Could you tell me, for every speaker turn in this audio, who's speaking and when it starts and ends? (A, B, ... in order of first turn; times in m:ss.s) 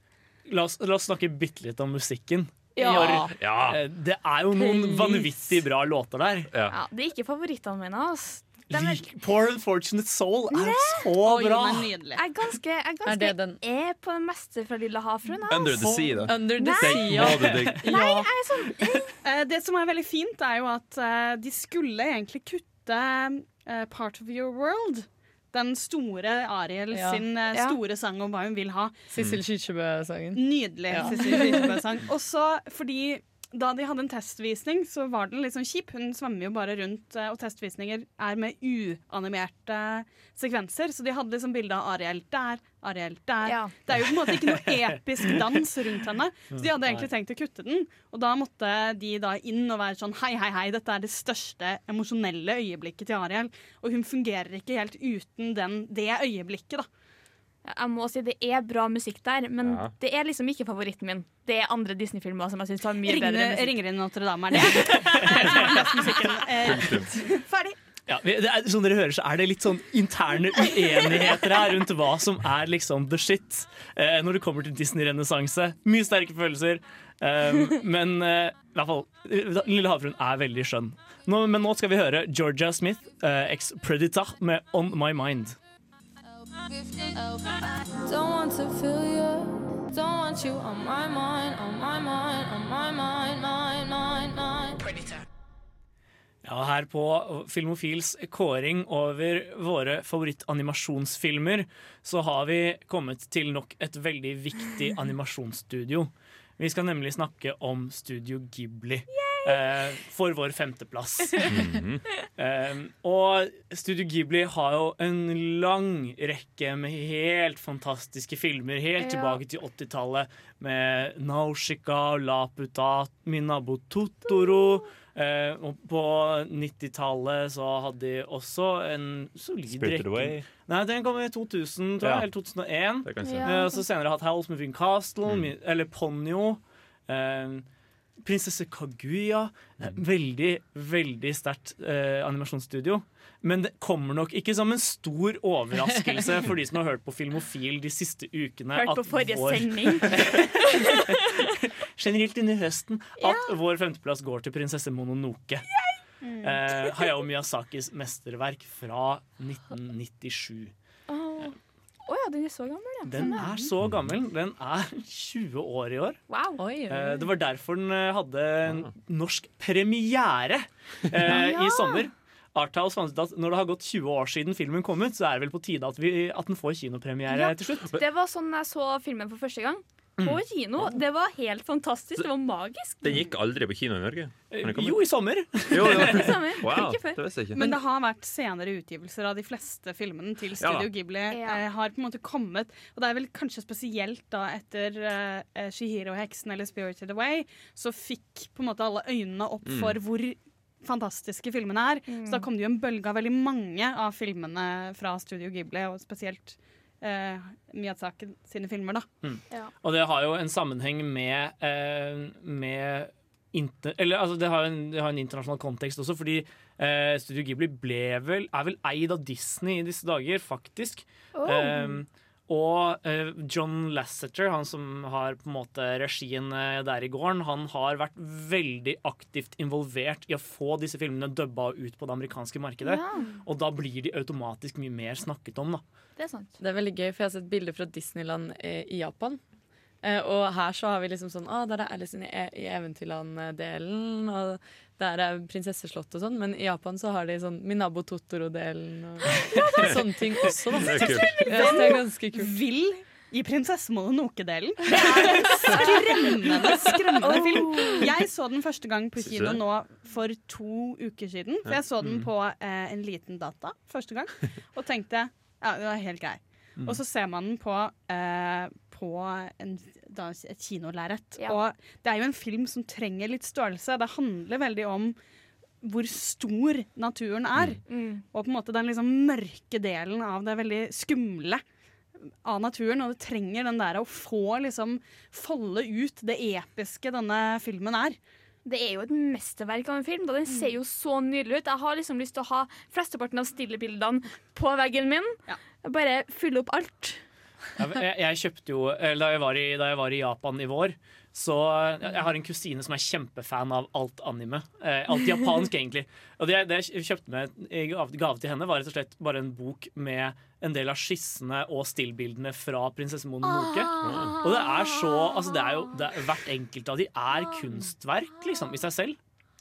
0:00.5-0:06.5 A
0:02.8-0:03.3 B
0:02.8-0:03.3 C
0:03.4-0:03.8 D
0:04.6-0:05.4 C
0:06.5-0:06.8 D
0:06.7-0:09.0 B
0:08.7-0:11.9 A
0:10.5-0:11.1 B
0:11.1-0:12.2 E
0:12.1-0:17.2 B
0:13.0-0:13.6 C
0:15.5-0:17.9 D
0:15.8-0:16.2 A
0:16.2-0:18.3 C
0:16.8-0:17.8 A
0:17.8-0:19.2 B
0:19.2-0:29.0 E
0:26.9-0:27.2 C
0:27.5-0:27.8 B
0:29.1-0:31.8 C
0:30.3-0:56.9 E
0:31.0-0:31.5 B
0:43.4-0:43.7 B
0:44.0-0:45.6 A
0:46.5-0:47.1 A
0:57.6-1:03.8 B
0:59.6-0:59.9 D
1:03.0-1:07.8 E
1:04.6-1:05.8 B
1:04.9-1:05.6 A
1:06.6-1:07.1 D
1:08.1-1:25.6 A
1:26.5-1:35.1 F
1:36.4-1:51.5 A
1:49.1-1:49.8 B
1:51.3-1:51.7 B
1:51.5-1:52.0 D
1:52.4-2:17.6 A
1:59.0-1:59.4 B
2:09.7-2:10.5 D
2:12.0-2:12.3 D
2:13.0-2:13.5 D
2:13.2-2:13.6 F
2:13.2-2:13.6 B
2:15.2-2:15.5 D
2:18.2-2:35.6 A
2:25.9-2:26.2 C
2:28.7-2:31.1 B
2:33.2-2:33.5 B
2:36.2-2:36.6 E
2:36.4-2:40.7 A
2:41.1-2:43.4 B
2:43.0-2:46.2 A
2:43.2-2:43.7 E
2:43.8-2:44.1 D
2:46.3-2:46.7 B
2:46.6-2:47.2 C
2:46.9-2:57.9 A
2:51.2-2:52.0 B
2:57.3-3:03.1 B
3:03.0-3:05.0 D
3:04.5-3:06.4 A
3:05.6-3:07.6 D
3:06.0-3:07.7 B
3:07.5-3:29.1 E
3:10.6-3:10.9 D
3:11.3-3:11.6 B
3:19.6-3:20.0 D
3:22.1-3:22.5 B
3:29.2-3:55.8 A
3:41.3-3:42.0 B
3:52.8-3:53.4 B
3:56.2-3:56.5 B
3:56.6-3:59.4 C
4:00.0-4:12.5 C
4:09.5-4:12.0 B
4:10.8-4:11.4 D
4:11.4-4:35.2 E
4:14.9-4:18.1 B
4:19.2-4:19.6 D
4:22.0-4:22.3 A
4:35.8-4:37.8 E
4:37.9-4:38.2 B
4:38.3-4:41.6 E
4:42.4-4:48.2 E
4:48.6-4:57.2 B
4:57.8-5:19.2 A
5:14.0-5:14.4 D